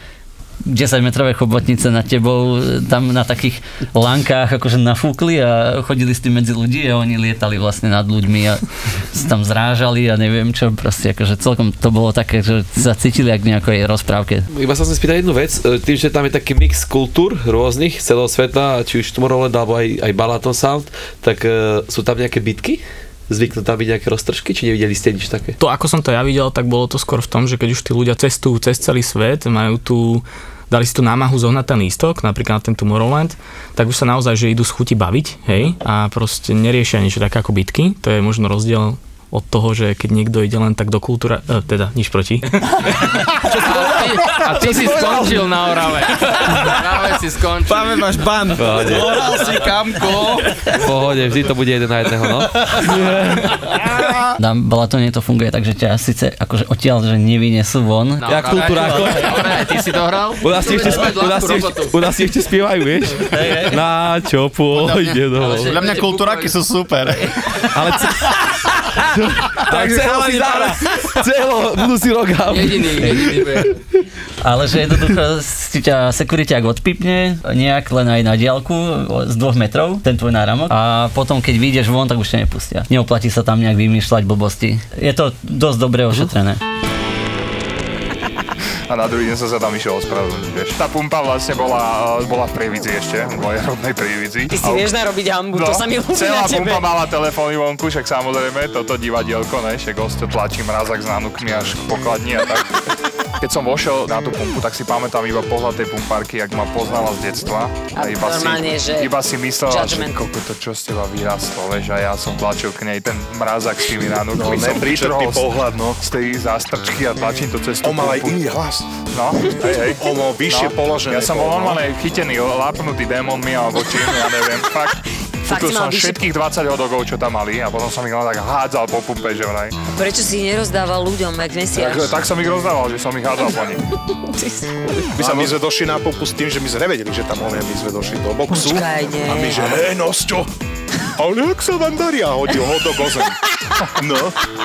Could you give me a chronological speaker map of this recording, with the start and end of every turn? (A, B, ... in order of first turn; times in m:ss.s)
0:00.6-0:14.5 A
0:14.5-0:25.6 B
0:25.6-0:43.3 C
0:43.4-0:48.0 D
0:44.3-0:45.4 E
0:46.6-0:46.8 E
0:47.6-0:48.8 E
0:48.6-0:49.2 B
0:48.7-0:50.6 F
0:50.7-0:53.7 B
0:54.4-0:59.7 A
0:58.2-1:02.0 D
0:58.3-0:59.4 B
1:00.4-1:05.7 B
1:00.6-1:01.1 A
1:03.2-1:03.8 A
1:04.7-1:07.6 F
1:05.4-1:06.2 A
1:05.7-1:06.3 D
1:07.7-1:08.3 B
1:09.0-1:13.5 B
1:09.7-1:10.6 D
1:09.8-1:10.1 E
1:12.5-1:13.8 D
1:14.4-1:26.6 A
1:28.9-1:35.0 G
1:34.5-1:37.0 H
1:35.5-1:42.8 G
1:43.4-1:58.4 G
1:47.9-1:49.1 H
1:49.6-1:50.2 H
1:54.4-1:56.0 I
1:57.8-1:58.8 I
1:59.1-2:09.8 G
1:59.6-2:01.8 I
2:05.4-2:06.2 H
2:09.9-2:12.3 H
2:11.7-2:13.8 G
2:14.4-2:15.3 H
2:15.1-2:20.4 I
2:15.2-2:15.6 G
2:18.5-2:19.9 H
2:21.2-2:23.4 I
2:24.0-2:24.3 I